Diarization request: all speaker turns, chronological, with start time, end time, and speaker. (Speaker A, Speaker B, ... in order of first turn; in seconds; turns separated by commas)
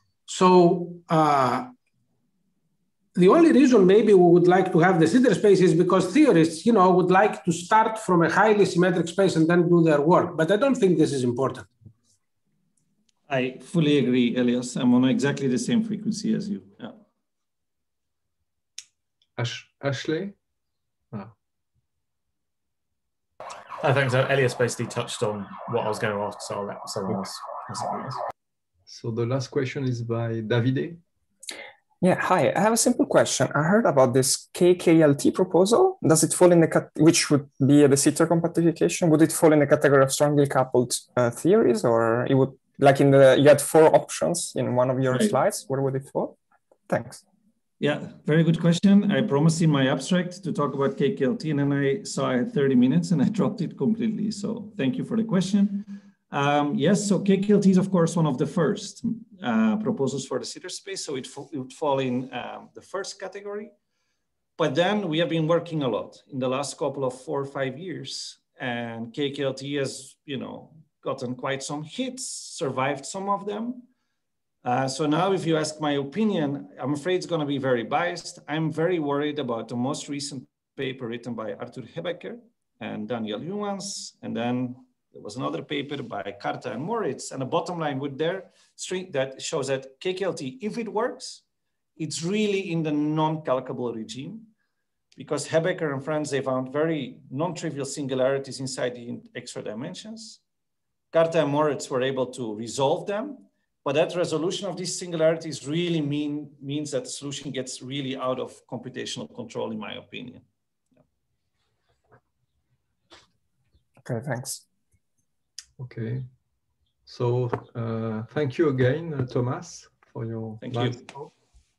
Speaker A: 0.3-1.7, Speaker A: 3.1-11.7, Speaker B: 13.3-17.0, Speaker C: 19.4-20.4, Speaker D: 23.8-28.2, Speaker C: 28.9-31.0, Speaker E: 32.0-46.4, Speaker B: 45.1-45.4, Speaker E: 46.9-47.2, Speaker B: 47.8-63.7, Speaker B: 64.6-73.9, Speaker B: 74.6-91.4, Speaker B: 92.0-94.5, Speaker B: 95.2-100.4, Speaker B: 101.1-110.5, Speaker E: 114.0-114.6, Speaker C: 115.8-116.3, Speaker C: 117.1-121.3, Speaker B: 120.6-121.0